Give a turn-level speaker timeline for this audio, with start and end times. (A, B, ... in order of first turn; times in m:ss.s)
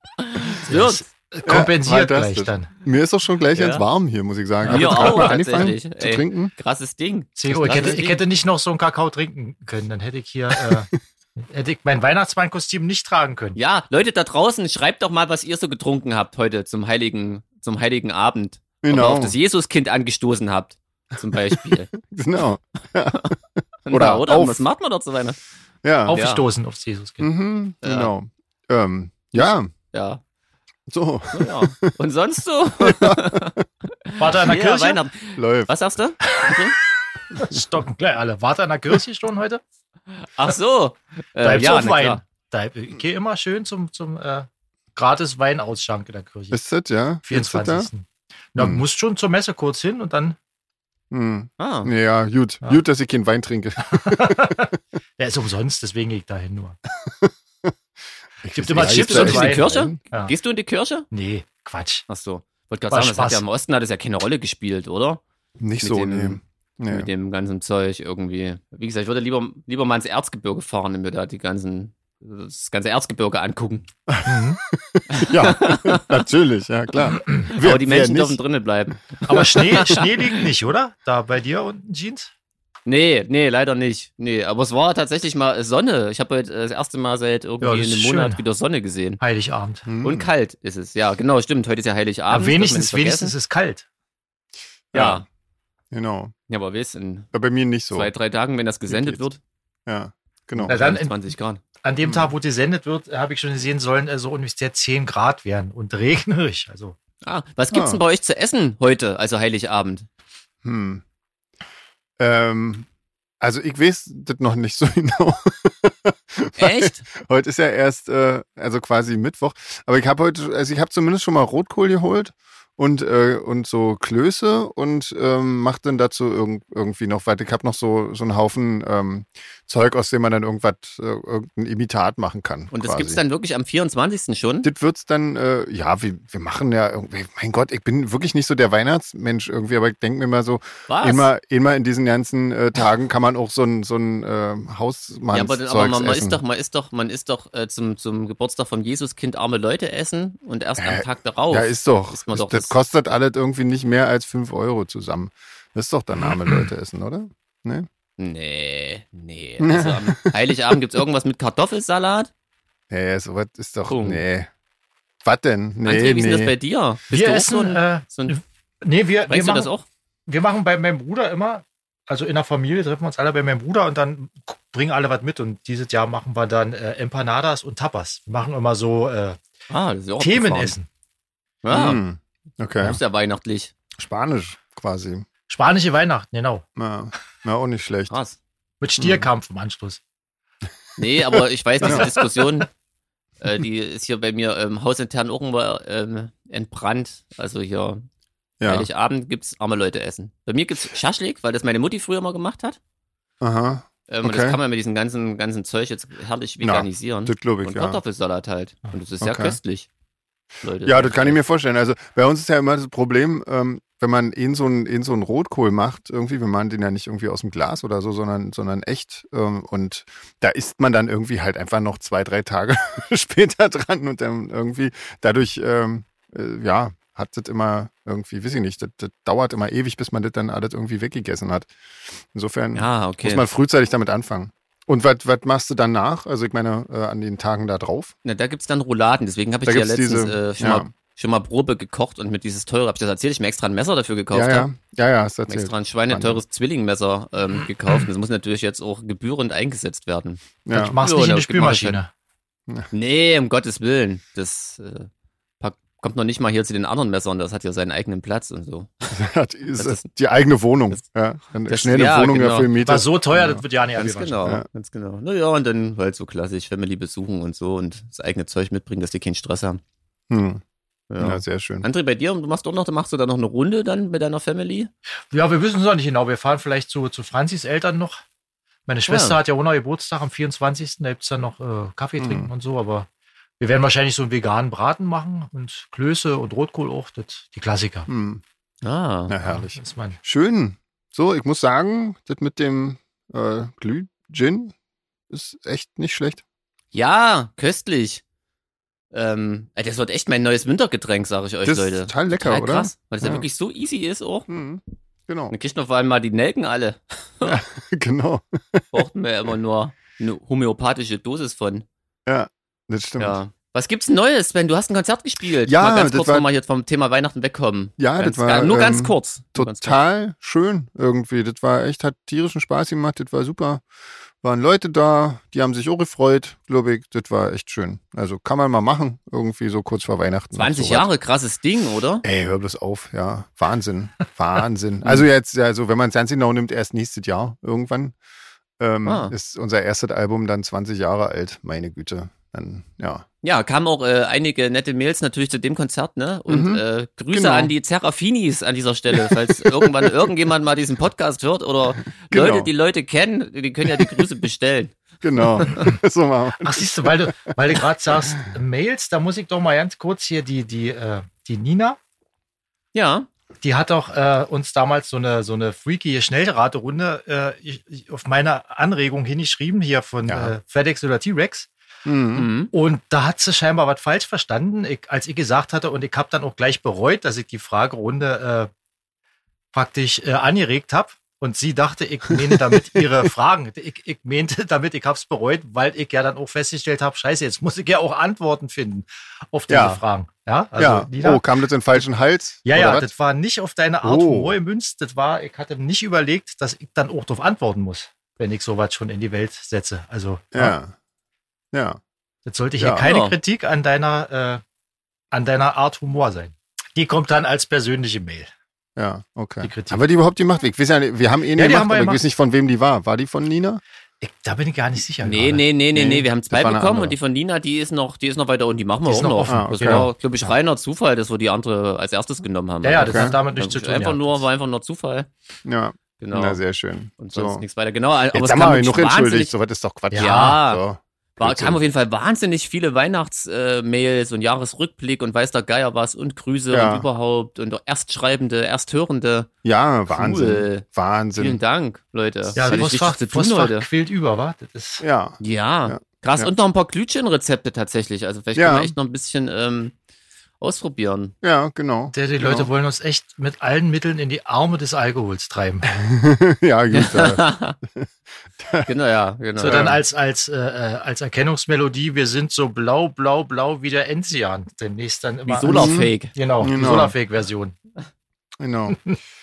0:00.2-0:01.0 A
0:00.6-0:02.7 B
0:01.4-0:06.5 C
0:03.5-0:03.8 A
0:04.6-0:05.4 B
0:04.7-0:08.2 A
0:07.4-0:13.6 B
0:07.6-0:07.9 C
0:10.5-0:10.8 C
0:13.6-0:21.9 A
0:18.8-0:19.4 C
0:21.5-0:23.4 C
0:23.9-0:25.4 A
0:23.9-0:24.6 C
0:25.8-0:26.2 C
0:26.1-0:27.3 B
0:26.1-0:26.4 A
0:27.2-0:29.7 C
0:27.8-0:28.1 A
0:29.4-0:30.2 A
0:30.9-0:31.9 C
0:31.3-0:36.8 A
0:32.8-0:33.6 C
0:34.2-0:35.0 B
0:35.4-0:35.7 C
0:36.2-0:36.6 B
0:37.3-0:39.6 B
0:40.2-0:42.2 A
0:41.4-0:46.6 B
0:46.5-0:47.9 C
0:47.2-0:50.4 B
0:48.6-0:48.8 C
0:51.1-0:54.6 C
0:51.6-0:51.9 A
0:53.9-0:56.8 B
0:57.0-0:57.7 C
0:58.4-1:00.0 C
0:58.5-1:00.3 B
0:58.8-1:01.1 A
1:01.1-1:02.0 B
1:02.1-1:05.2 A
1:02.9-1:03.4 B
1:05.6-1:07.1 C
1:05.8-1:13.9 A
1:14.1-1:18.4 C
1:14.2-1:14.6 B
1:15.1-1:16.2 A
1:16.9-1:20.1 A
1:19.2-1:22.3 B
1:22.8-1:29.2 A
1:27.6-1:28.4 B
1:29.2-1:29.8 B
1:29.8-1:30.3 C
1:30.0-1:33.3 A
1:32.3-1:33.8 B
1:34.9-1:35.2 C
1:34.9-1:35.2 A
1:35.9-1:36.3 C
1:36.5-1:37.3 A
1:37.3-1:38.1 C
1:37.9-1:39.4 A
1:38.9-1:39.2 C
1:39.9-1:40.8 C
1:40.5-1:41.6 A
1:40.7-1:41.3 B
1:41.8-1:46.9 B
1:42.0-1:42.3 C
1:47.2-1:50.1 A
1:47.7-1:48.0 C
1:50.6-1:51.0 C
1:52.2-1:52.9 C
1:53.4-2:13.2 C
1:56.6-1:57.0 A
2:12.7-2:14.7 A
2:14.6-2:26.4 C
2:20.9-2:21.3 A
2:25.3-2:32.7 A
2:30.8-2:37.9 C
2:38.2-2:42.3 A
2:39.6-2:40.8 C
2:42.9-2:44.5 C
2:43.9-2:44.2 A
2:45.2-2:46.5 C
2:45.8-2:48.4 A
2:47.1-2:49.7 B
2:49.3-2:49.8 A
2:50.3-2:59.4 B
2:59.7-3:00.7 A
3:00.2-3:00.9 B
3:01.6-3:02.0 A
3:01.7-3:03.0 C
3:02.8-3:03.7 A
3:04.0-3:05.2 C
3:05.5-3:06.6 B
3:06.8-3:08.1 C
3:08.1-3:08.4 A
3:08.8-3:10.0 B
3:11.0-3:12.7 A
3:11.3-3:12.1 C
3:13.4-3:18.0 A
3:18.6-3:18.9 C
3:18.6-3:22.8 A
3:23.4-3:24.6 C
3:24.1-3:29.9 A
3:26.6-3:28.0 C
3:29.2-3:29.6 C
3:30.6-3:31.4 A
3:30.8-3:51.7 C
3:52.3-3:58.1 C
3:52.7-3:53.4 A
3:58.2-4:04.7 A
3:59.6-4:00.9 C
4:04.3-4:06.4 C
4:05.5-4:12.0 A
4:10.6-4:11.0 C
4:10.7-4:12.1 B
4:12.9-4:15.1 A
4:15.6-4:19.1 A
4:19.1-4:23.6 C
4:19.8-4:20.0 A
4:21.7-4:22.7 A
4:22.8-4:24.5 B
4:24.0-4:29.8 A
4:30.3-4:30.6 C
4:31.1-4:34.9 A
4:31.2-4:31.9 C
4:35.3-4:38.2 B
4:38.9-4:43.1 B
4:39.1-4:39.4 A
4:42.2-4:42.5 C
4:43.6-4:48.1 B
4:48.1-4:48.4 C
4:48.8-4:49.4 A
4:49.3-4:54.7 C
4:49.4-4:50.2 B
4:55.3-4:56.4 C
4:56.9-4:58.2 A
4:59.1-5:04.5 A
5:01.6-5:03.4 C
5:04.5-5:05.5 C
5:05.5-5:07.6 A
5:07.4-5:08.9 C
5:08.9-5:11.8 A
5:12.2-5:13.4 C
5:13.2-5:20.0 A
5:15.6-5:16.5 C
5:18.0-5:23.8 C
5:24.4-5:31.1 C
5:30.5-5:32.2 A
5:32.2-5:38.2 C
5:38.8-5:43.2 C
5:39.0-5:39.3 A
5:43.4-5:55.8 A
5:46.5-5:47.7 C
5:49.1-5:50.1 C
5:52.3-5:52.7 C
5:53.8-5:54.2 C
5:55.2-5:57.3 C
5:56.6-6:02.0 B
6:02.9-6:03.3 A
6:03.6-6:11.7 B
6:10.3-6:10.5 C
6:12.0-6:12.5 C
6:12.3-6:12.7 A
6:12.7-6:18.7 B
6:19.7-6:31.4 B
6:22.5-6:23.0 C
6:29.7-6:30.0 C
6:30.8-6:33.1 C
6:32.6-6:40.8 B
6:34.0-6:34.5 C
6:40.5-6:40.9 C
6:41.7-6:42.0 C
6:42.4-6:44.6 B
6:42.8-6:43.0 C
6:43.0-6:43.4 A
6:45.3-6:48.5 B
6:49.0-6:53.8 C
6:49.6-6:50.0 B
6:51.6-6:52.2 B
6:54.2-6:55.6 B
6:55.2-7:05.3 A
6:55.9-6:57.1 C
6:59.0-7:00.5 B
6:59.5-7:00.1 C
7:02.8-7:04.4 B
7:03.0-7:03.4 C
7:05.6-7:07.6 C
7:06.2-7:06.6 A
7:07.2-7:09.5 A
7:08.3-7:11.8 C
7:10.1-7:10.6 B
7:10.1-7:10.8 A
7:11.4-7:19.5 A
7:16.7-7:17.1 C
7:19.6-7:21.6 C
7:20.1-7:23.9 A
7:22.5-7:25.0 B
7:25.0-7:26.5 C
7:25.4-7:29.9 A
7:28.5-7:28.9 C
7:30.6-7:31.3 A
7:31.4-7:32.7 C
7:32.1-7:35.9 B
7:35.9-7:37.4 C
7:36.9-7:37.8 A
7:37.9-7:38.9 C
7:38.8-7:40.0 A
7:39.6-7:47.8 B
7:39.6-7:40.0 C
7:45.5-7:46.3 A
7:45.7-7:47.2 C
7:48.6-7:49.1 C
7:48.9-7:49.2 B